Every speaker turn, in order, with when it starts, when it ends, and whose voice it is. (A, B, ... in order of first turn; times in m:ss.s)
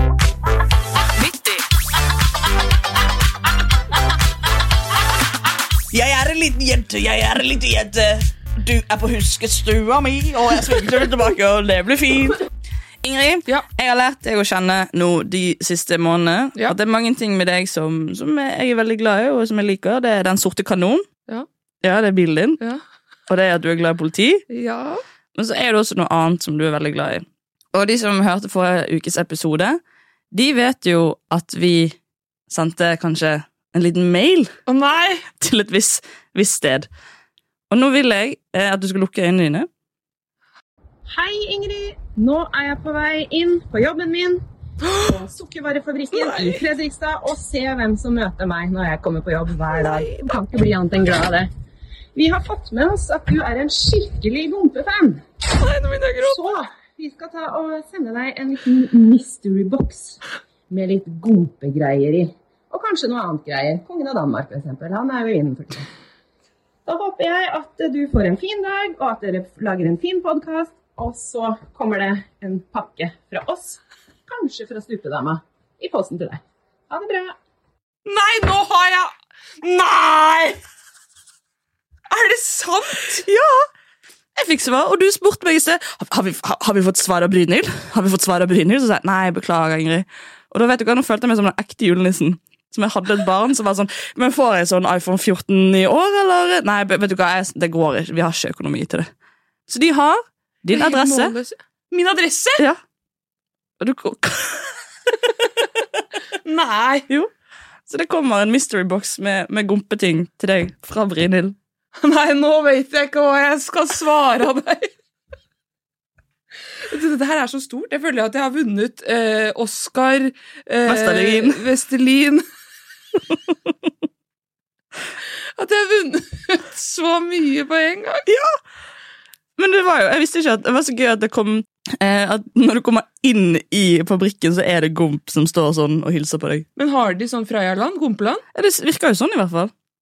0:01.2-0:01.6 A
0:05.9-0:12.4 A
0:13.0-0:21.1 A
0:21.8-0:22.6 A
0:23.3-0:24.4 A
0:24.5-0:25.0 B
0:25.4-0:29.8 A
0:30.3-0:32.0 A
0:32.5-0:34.5 A
0:34.7-0:35.3 B
0:35.4-0:36.9 A
0:37.7-0:39.7 A
0:41.1-0:44.4 C
0:44.8-0:45.1 B
0:45.0-0:51.5 C
0:46.1-0:46.7 B
0:49.7-0:50.2 B
0:52.2-0:55.2 C
0:55.6-0:56.5 B
0:56.2-1:00.2 C
1:00.7-1:05.9 C
1:06.9-1:17.4 C
1:18.1-1:20.6 B
1:22.1-1:23.3 B
1:23.2-1:23.7 A
1:24.4-1:39.1 A
1:39.7-1:41.3 A
1:40.7-1:42.6 B
1:43.8-1:44.8 A
1:46.4-1:47.1 B
1:47.9-1:51.6 A
1:52.0-1:54.9 B
1:56.9-2:02.4 B
2:00.9-2:01.6 A
2:05.6-2:08.3 B
2:08.3-2:08.6 A
2:09.6-2:16.7 A
2:16.8-2:18.4 B
2:18.6-2:19.7 A